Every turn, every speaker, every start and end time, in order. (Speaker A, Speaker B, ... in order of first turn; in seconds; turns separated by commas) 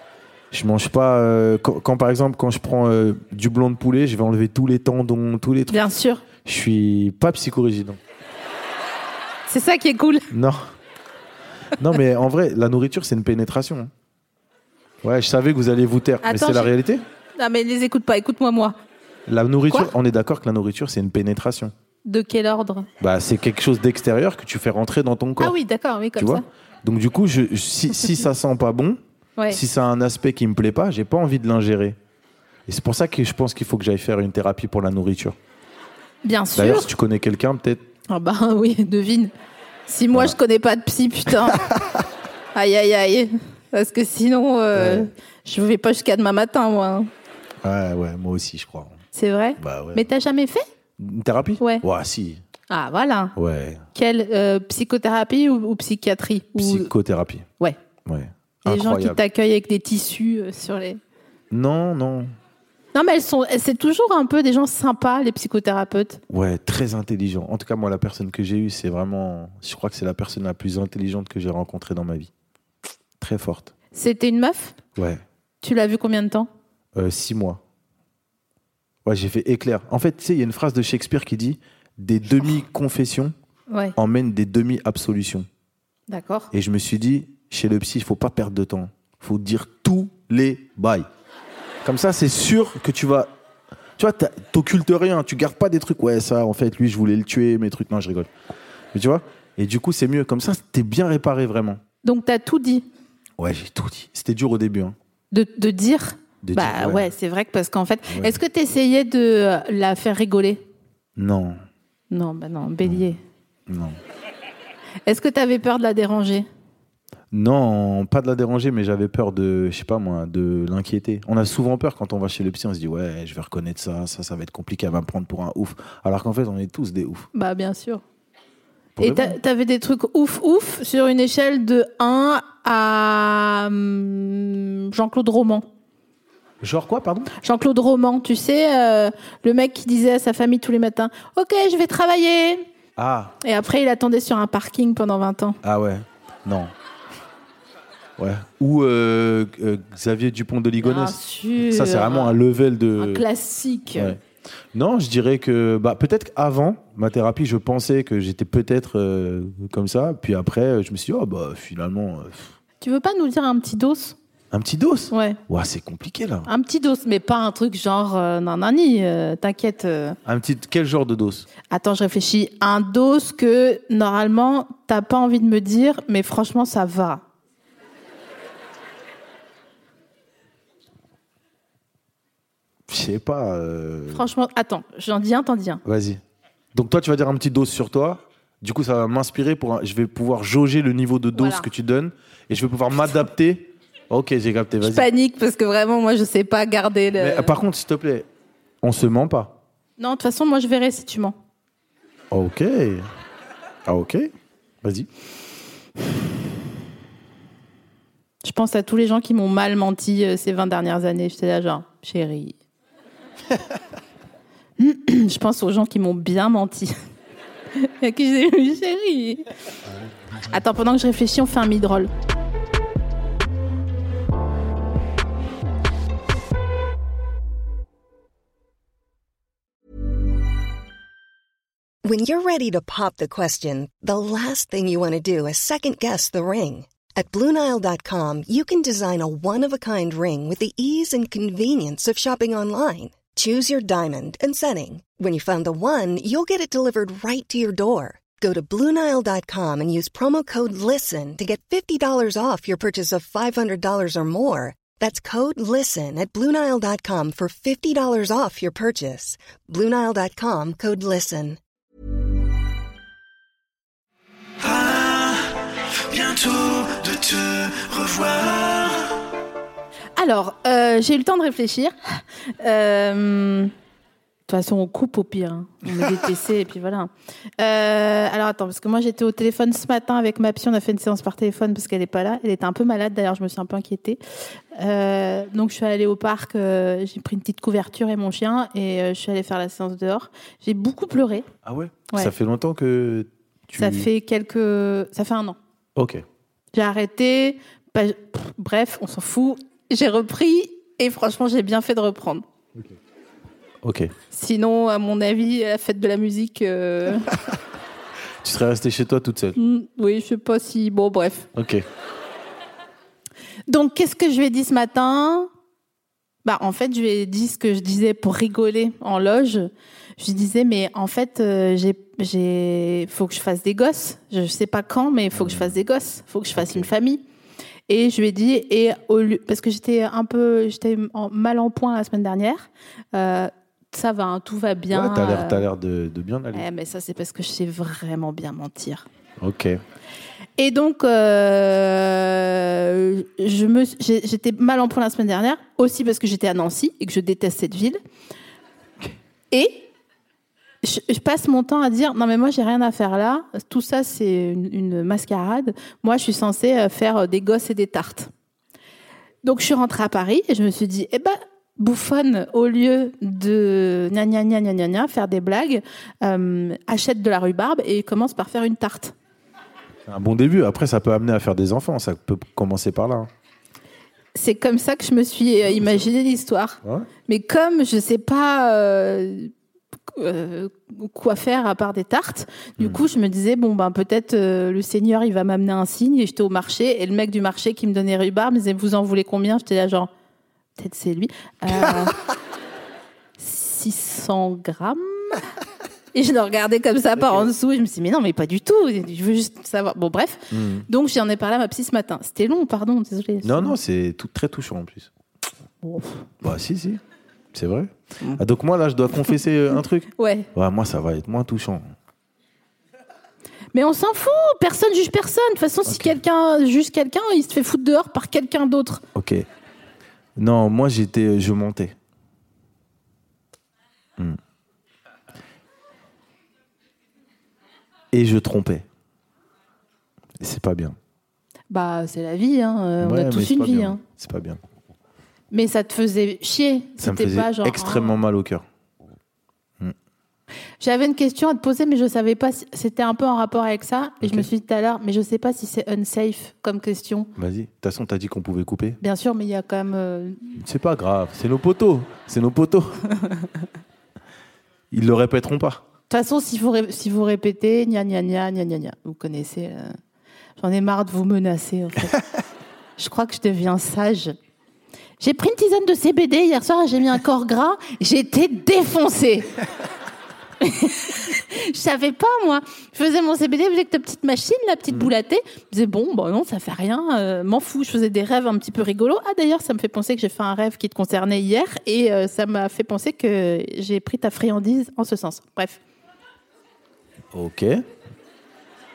Speaker A: 0.5-5.8, Speaker B: 5.7-6.2, Speaker A: 6.4-8.0, Speaker B: 9.5-10.3, Speaker A: 10.3-10.6, Speaker A: 11.8-13.9, Speaker A: 15.0-17.0, Speaker B: 16.2-16.7, Speaker B: 17.4-18.8, Speaker A: 19.3-21.7, Speaker B: 22.1-22.9, Speaker A: 23.0-25.6, Speaker B: 25.4-26.4, Speaker A: 26.1-32.0, Speaker A: 32.7-35.4, Speaker B: 36.2-36.9, Speaker A: 36.5-37.8, Speaker B: 38.1-39.3, Speaker B: 39.9-41.6, Speaker A: 41.5-41.8, Speaker B: 42.5-47.1, Speaker A: 44.7-45.1, Speaker A: 47.6-49.0, Speaker B: 49.1-50.6, Speaker A: 49.6-50.0, Speaker A: 51.0-52.4, Speaker B: 51.6-51.8, Speaker B: 52.7-53.4, Speaker A: 53.4-53.8, Speaker B: 53.9-56.9, Speaker A: 56.6-57.5, Speaker A: 58.0-59.2, Speaker B: 58.6-61.0, Speaker A: 61.5-62.3, Speaker B: 62.9-66.2, Speaker A: 66.3-72.3, Speaker A: 73.2-73.7, Speaker B: 73.9-74.8, Speaker A: 75.0-75.2, Speaker B: 75.6-76.5, Speaker A: 76.9-77.6, Speaker A: 79.0-83.3, Speaker B: 83.7-83.9, Speaker A: 84.0-85.5, Speaker B: 86.1-86.5, Speaker A: 86.5-91.0, Speaker A: 91.8-93.3, Speaker A: 94.0-98.3, Speaker A: 98.9-101.8, Speaker B: 102.0-102.8, Speaker A: 103.4-105.0, Speaker B: 105.3-110.6, Speaker A: 106.4-107.1, Speaker A: 108.1-108.4, Speaker A: 111.2-111.6, Speaker B: 112.1-113.2, Speaker A: 113.7-114.0, Speaker B: 115.0-116.5, Speaker A: 117.3-127.3, Speaker B: 127.3-128.0, Speaker A: 129.0-129.4, Speaker B: 129.0-135.7, Speaker A: 136.6-137.3, Speaker B: 137.4-142.6, Speaker A: 143.0-143.3, Speaker B: 143.4-145.6, Speaker A: 145.6-146.7, Speaker A: 148.2-153.2, Speaker B: 150.8-152.4, Speaker B: 153.0-154.2, Speaker A: 153.9-154.2, Speaker A: 154.7-162.5, Speaker B: 162.8-164.2, Speaker A: 164.5-166.5, Speaker B: 165.1-165.4, Speaker B: 166.5-170.2, Speaker A: 170.2-171.5, Speaker B: 171.7-177.2, Speaker A: 182.9-184.3, Speaker B: 184.1-185.8, Speaker A: 185.8-186.2, Speaker A: 186.7-195.1, Speaker B: 191.3-191.7, Speaker B: 194.8-197.5, Speaker A: 197.2-198.3, Speaker A: 198.8-199.6, Speaker B: 200.0-201.3, Speaker A: 202.3-203.1, Speaker A: 203.8-204.3, Speaker A: 204.8-205.1, Speaker B: 208.4-212.6, Speaker B: 214.8-216.9, Speaker B: 217.8-219.4, Speaker B: 220.5-222.1, Speaker C: 232.0-261.6, Speaker A: 264.6-269.1, Speaker B: 270.2-273.7, Speaker B: 274.5-284.2, Speaker B: 284.7-291.5, Speaker A: 291.6-294.1, Speaker B: 293.8-295.6, Speaker A: 295.9-296.2, Speaker B: 296.7-302.4, Speaker A: 303.8-304.1, Speaker B: 304.3-307.3, Speaker A: 308.4-309.6, Speaker B: 309.6-311.5, Speaker A: 311.5-311.8, Speaker B: 313.7-315.5, Speaker B: 316.4-327.2, Speaker A: 325.3-325.8, Speaker A: 326.5-326.9, Speaker B: 327.9-335.6, Speaker A: 334.9-336.6, Speaker B: 336.5-339.0, Speaker A: 339.4-339.8, Speaker B: 340.6-348.0, Speaker B: 349.5-349.9, Speaker B: 350.8-358.3, Speaker B: 359.4-369.1, Speaker A: 370.1-373.3, Speaker B: 374.3-379.5, Speaker A: 375.7-376.1, Speaker A: 376.8-377.1, Speaker B: 380.1-390.1, Speaker B: 390.8-392.2, Speaker B: 393.4-395.4, Speaker B: 396.1-403.8, Speaker A: 397.2-397.5, Speaker A: 400.5-400.9, Speaker A: 403.4-405.1, Speaker B: 405.8-406.3, Speaker A: 406.4-407.0, Speaker A: 407.5-411.9, Speaker B: 410.1-410.5, Speaker B: 413.7-419.0, Speaker A: 415.9-416.1, Speaker A: 419.1-419.4, Speaker A: 420.4-421.9, Speaker A: 428.1-428.9, Speaker A: 430.4-430.9, Speaker B: 431.7-434.0, Speaker A: 433.0-434.6, Speaker B: 435.5-438.1, Speaker A: 437.0-438.6, Speaker B: 440.8-447.3, Speaker A: 444.2-444.5, Speaker A: 447.4-449.0, Speaker B: 449.0-450.6, Speaker A: 450.6-453.0, Speaker A: 454.9-455.8, Speaker B: 456.1-460.0, Speaker B: 460.6-462.2, Speaker B: 463.0-464.3, Speaker B: 465.2-469.5, Speaker B: 470.6-485.8, Speaker A: 487.3-487.8